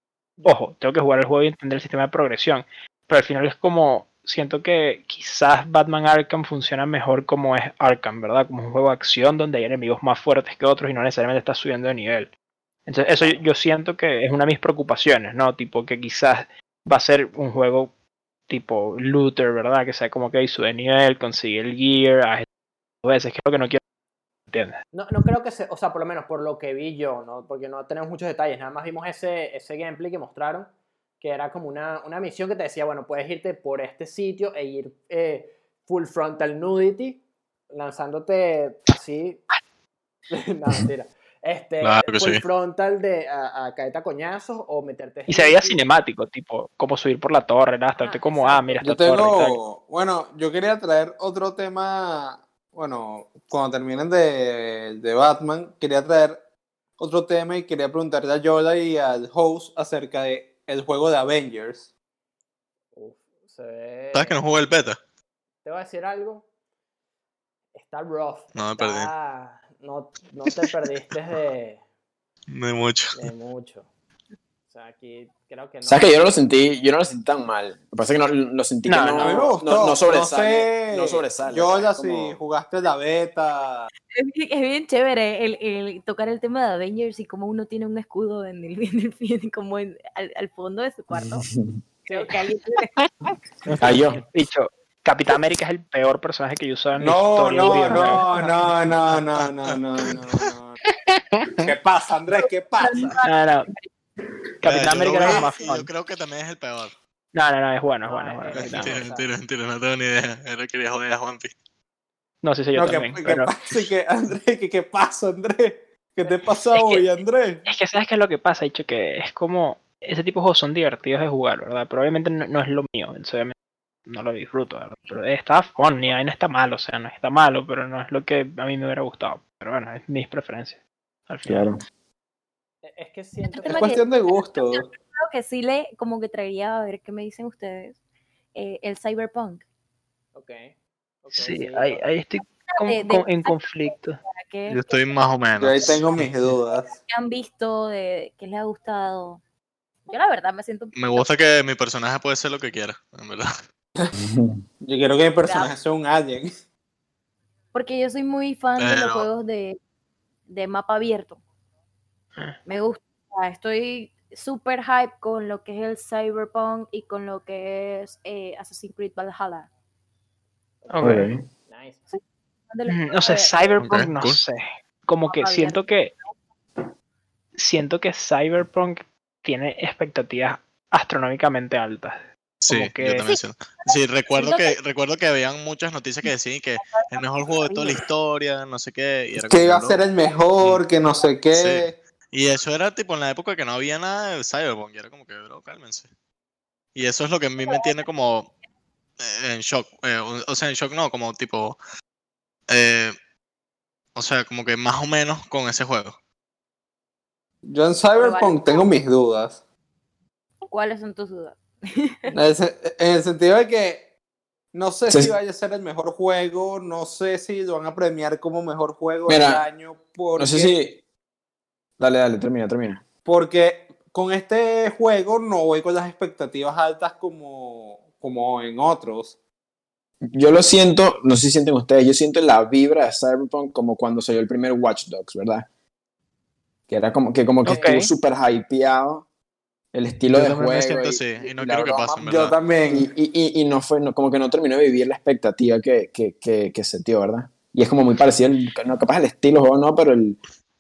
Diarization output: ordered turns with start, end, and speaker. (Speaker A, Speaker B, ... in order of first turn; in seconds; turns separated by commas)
Speaker A: 0.4-12.3, Speaker A: 12.9-17.9, Speaker B: 13.1-13.4, Speaker A: 18.5-22.5, Speaker A: 23.0-23.8, Speaker A: 24.5-24.8, Speaker B: 24.9-39.4, Speaker B: 40.3-45.8, Speaker C: 41.8-42.4, Speaker A: 45.3-49.6, Speaker B: 48.0-48.8, Speaker D: 48.8-56.4, Speaker D: 57.0-61.9, Speaker B: 63.0-64.4, Speaker C: 64.1-65.0, Speaker B: 65.6-66.5, Speaker B: 67.7-71.8, Speaker C: 68.5-69.1, Speaker C: 72.5-73.2, Speaker B: 73.1-73.9, Speaker B: 74.7-76.3, Speaker E: 75.8-82.4, Speaker A: 78.8-79.5, Speaker D: 79.2-83.9, Speaker F: 84.1-91.5, Speaker E: 91.1-91.8, Speaker F: 92.1-92.9, Speaker B: 92.1-92.6, Speaker E: 93.8-94.2, Speaker A: 94.3-98.7, Speaker D: 97.0-100.8, Speaker F: 97.9-98.2, Speaker C: 99.3-99.8, Speaker A: 101.1-101.7, Speaker D: 101.6-103.2, Speaker F: 102.8-103.9, Speaker A: 103.2-103.7, Speaker A: 104.6-105.9, Speaker C: 104.7-106.9, Speaker A: 107.3-109.0, Speaker B: 108.0-109.3, Speaker C: 108.6-111.5, Speaker A: 112.4-113.5, Speaker D: 112.8-117.6, Speaker A: 117.7-123.5, Speaker A: 124.1-131.8, Speaker E: 131.5-131.8, Speaker B: 132.8-134.0, Speaker F: 133.5-138.0, Speaker D: 133.7-134.9, Speaker F: 138.5-139.6, Speaker B: 140.3-142.0, Speaker A: 141.3-144.2, Speaker F: 142.7-145.0, Speaker C: 144.7-146.3, Speaker D: 145.6-146.9, Speaker F: 146.9-149.4, Speaker F: 150.1-151.3, Speaker C: 150.9-153.5, Speaker E: 154.2-154.6, Speaker D: 154.8-156.5, Speaker F: 155.4-155.7, Speaker F: 157.7-159.8, Speaker C: 158.8-159.3, Speaker F: 160.5-161.4, Speaker F: 162.7-169.7, Speaker B: 170.8-171.1, Speaker A: 170.9-171.3, Speaker E: 171.0-171.4, Speaker B: 171.7-172.1, Speaker F: 172.7-173.8, Speaker A: 172.9-176.1, Speaker C: 173.8-174.4, Speaker F: 175.3-176.2, Speaker A: 177.6-183.3, Speaker C: 182.6-190.0, Speaker F: 183.2-184.8, Speaker F: 186.3-188.1, Speaker D: 189.4-192.0, Speaker C: 191.5-196.1, Speaker C: 196.9-198.5, Speaker C: 199.2-201.8, Speaker C: 202.7-203.2, Speaker C: 204.2-206.2, Speaker D: 207.7-209.6, Speaker F: 208.2-208.9, Speaker F: 210.7-212.3, Speaker D: 212.3-214.1, Speaker D: 214.7-220.7, Speaker E: 215.1-215.3, Speaker E: 219.3-219.6, Speaker E: 220.4-221.0, Speaker E: 222.0-223.0, Speaker D: 223.2-229.4, Speaker E: 230.2-235.7, Speaker E: 236.9-239.2, Speaker A: 237.6-238.1, Speaker B: 237.7-237.9, Speaker E: 239.9-242.3, Speaker C: 240.3-242.6, Speaker D: 242.2-243.1, Speaker E: 242.9-250.4